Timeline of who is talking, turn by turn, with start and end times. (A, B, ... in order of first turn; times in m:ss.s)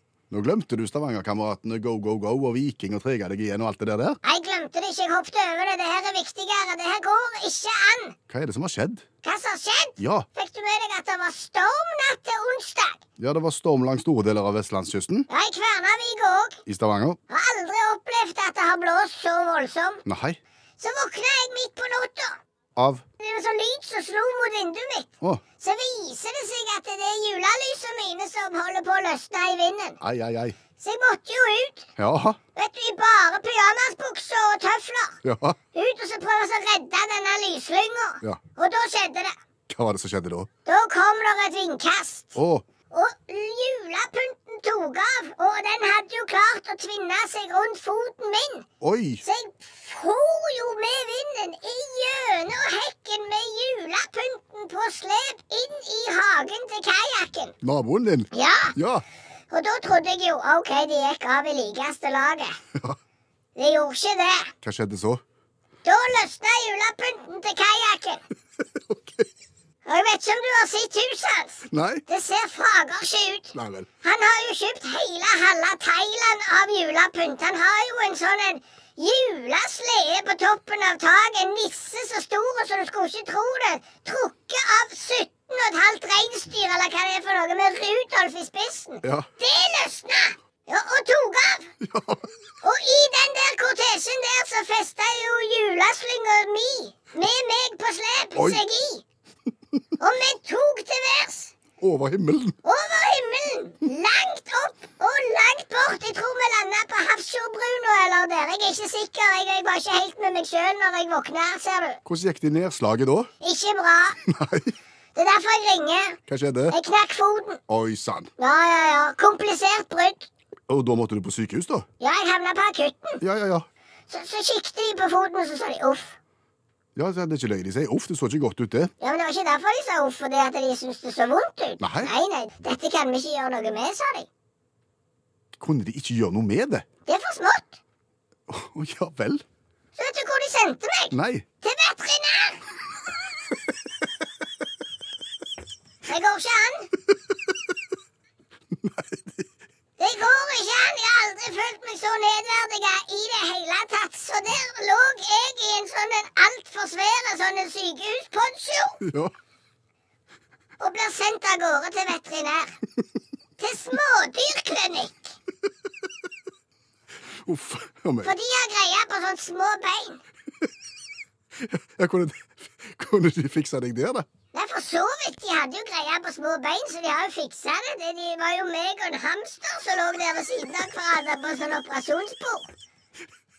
0:00.3-0:04.2 A
0:04.2-0:08.2 B
0:08.3-0:09.0 A
0:09.2-0:13.0 B
0:10.0-0:10.3 A
0:13.2-0:15.3 A
0:15.3-0:16.6 B
0:16.7-0:17.2 A
0:17.3-0:20.0 B
0:20.1-0:20.4 A
0:20.8-0:22.4 B
0:22.8-0:23.0 A
0:23.2-0:30.0 B
0:30.0-0:30.6 A
0:30.8-0:31.9 B
0:32.0-0:32.4 A
0:32.6-0:35.2 B
0:35.2-0:35.6 A
0:35.7-0:39.3 B
0:39.7-0:40.5 A
0:40.6-0:42.4 B
0:42.4-0:42.6 A
0:42.9-0:48.7 B
0:48.8-0:49.2 A
0:49.2-0:57.6 B
0:57.6-0:59.0 A
0:58.3-0:58.8 B
0:59.5-1:02.6 B
1:03.6-1:04.5 B
1:04.6-1:05.2 A
1:05.8-1:08.2 B
1:08.9-1:09.3 A
1:09.8-1:31.7 B
1:11.7-1:12.0 A
1:13.5-1:13.9 A
1:31.8-1:32.3 A
1:32.6-1:39.0 B
1:38.4-1:38.6 A
1:40.0-1:41.5 B
1:41.8-1:42.6 A
1:42.6-1:52.0 B
1:52.0-1:53.3 A
1:53.4-1:54.2 B
1:54.2-1:54.7 A
1:55.2-1:56.2 B
1:56.3-1:56.8 A
1:56.7-1:57.6 B
1:57.7-1:58.3 A
1:58.4-2:00.3 B
2:00.7-2:01.9 A
2:02.0-2:03.2 B
2:03.2-2:03.7 A
2:04.1-2:06.2 B
2:07.0-2:08.9 A
2:09.0-2:14.3 B
2:11.8-2:12.1 A
2:15.6-2:16.9 A
2:17.1-2:17.8 B
2:18.5-2:19.4 A
2:20.0-2:22.6 B
2:21.1-2:21.4 A
2:26.1-2:26.9 B
2:28.8-2:29.5 A
2:30.0-2:39.0 B
2:39.0-2:39.3 A
2:40.8-2:42.8 B
2:43.6-2:45.3 B
2:47.4-2:48.3 A
2:48.2-2:50.2 B
2:51.6-2:54.3 A
2:54.5-3:02.7 B